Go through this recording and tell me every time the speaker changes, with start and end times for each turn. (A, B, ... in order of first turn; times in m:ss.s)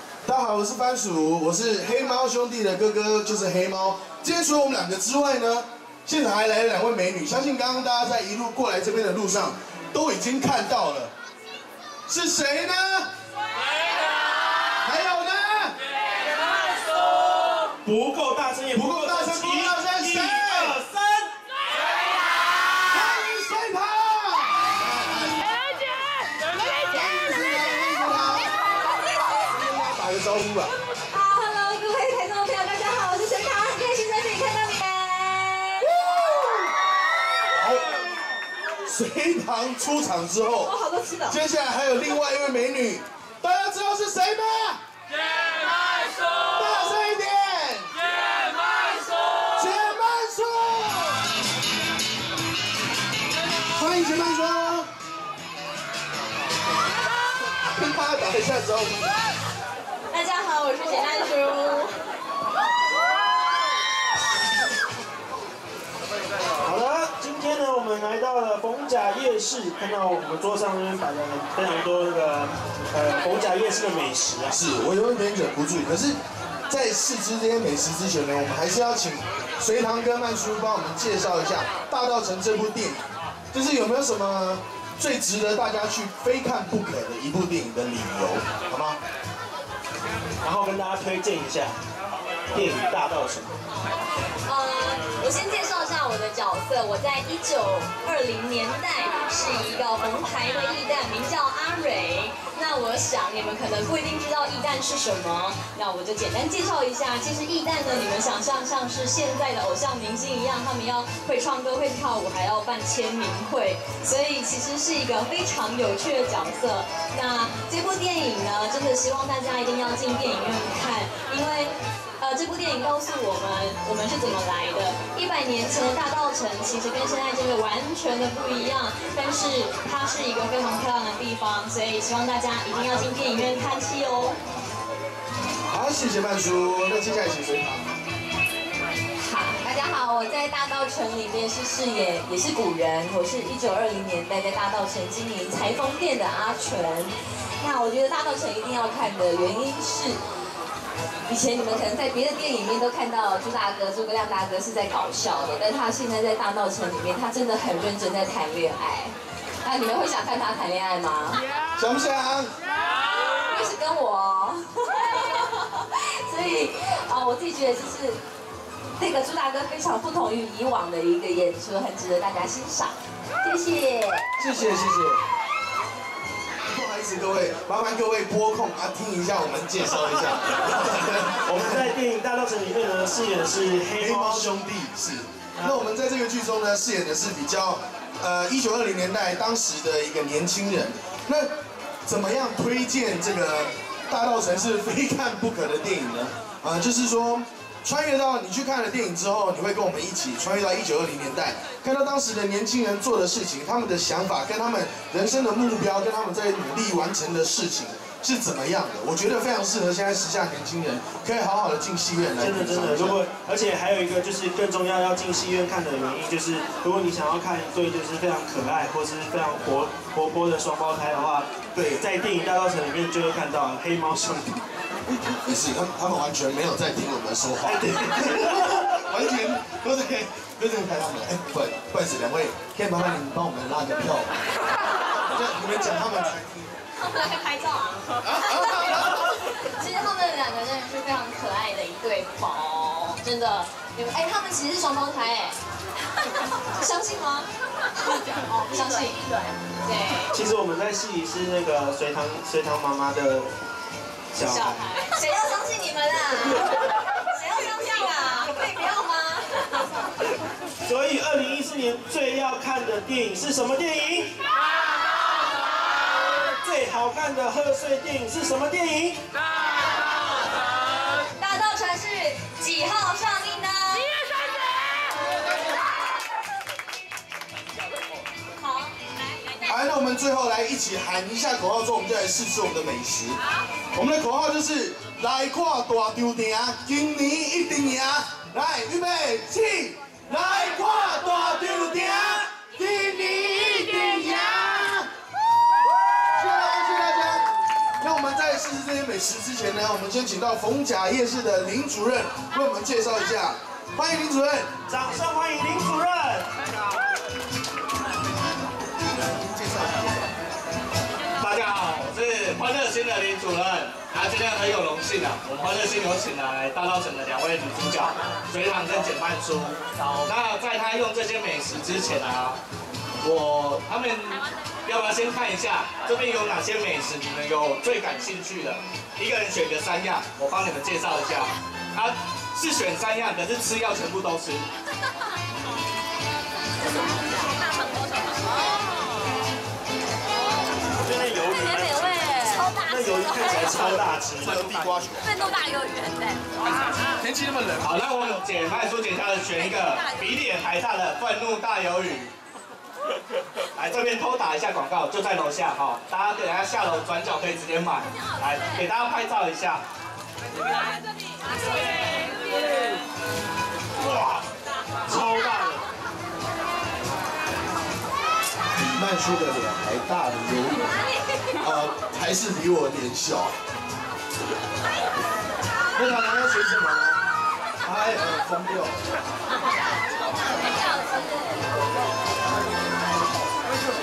0:00.2-0:11.1 A
0:12.1-0:13.1 A
0:14.8-0:15.8 A
0:17.7-0:21.3 B
0:18.7-0:20.8 A
0:22.8-0:25.5 A
0:26.5-0:28.5 A
0:29.5-0:30.7 A
0:31.1-0:36.0 C
0:35.8-0:36.7 A
0:37.5-0:37.9 A
0:38.8-0:40.7 A
0:40.6-0:41.4 C
0:41.3-0:44.8 A
0:46.2-0:47.9 A
0:49.4-0:51.2 A
0:53.7-0:54.9 A
0:57.6-0:59.0 A
1:00.1-1:01.9 C
1:06.6-1:14.6 B
1:14.5-1:16.2 A
1:16.7-1:29.0 A
1:30.4-1:31.8 B
1:32.5-1:33.5 B
1:34.4-2:14.4 C
2:15.7-2:17.9 A
2:19.2-2:30.2 C
2:31.3-2:41.4 C
2:41.8-2:42.5 A
2:43.4-2:48.2 C
2:49.0-2:54.3 C
2:54.4-2:55.2 A
2:56.7-3:01.9 A
3:01.4-3:04.6 B
3:04.0-3:11.5 A
3:12.0-3:33.2 A
3:32.4-3:44.6 B
3:41.8-3:42.0 A
3:45.1-3:54.3 A
3:47.6-3:48.8 B
3:55.2-3:56.7 A
3:57.0-4:05.6 C
3:58.2-3:59.3 A
4:06.7-4:07.5 C
4:08.0-4:10.3 C
4:10.3-4:13.5 B
4:14.3-4:14.8 B
4:14.4-4:16.7 C
4:17.2-4:20.0 C
4:20.8-4:24.3 B
4:26.5-4:29.2 B
4:31.4-4:34.1 C
4:38.6-4:39.0 C
4:39.6-4:43.4 A
4:43.9-4:55.1 A
4:56.4-4:57.5 A
4:58.0-5:04.7 A
5:04.9-5:06.5 B
5:09.2-5:10.3 A
5:11.4-5:22.6 D
5:23.2-5:34.7 D
5:37.3-5:38.4 C
5:41.0-5:44.7 B
5:41.6-5:43.7 C
5:43.8-5:45.3 A
5:45.2-5:46.4 C
5:47.2-5:48.0 A
5:47.8-5:52.3 D
5:53.7-5:59.8 D
6:04.0-6:04.4 B
6:05.0-6:05.9 B
6:08.8-6:11.0 A
6:11.6-6:13.6 A
6:16.0-6:17.2 A
6:17.8-6:19.0 A
6:20.4-6:21.6 C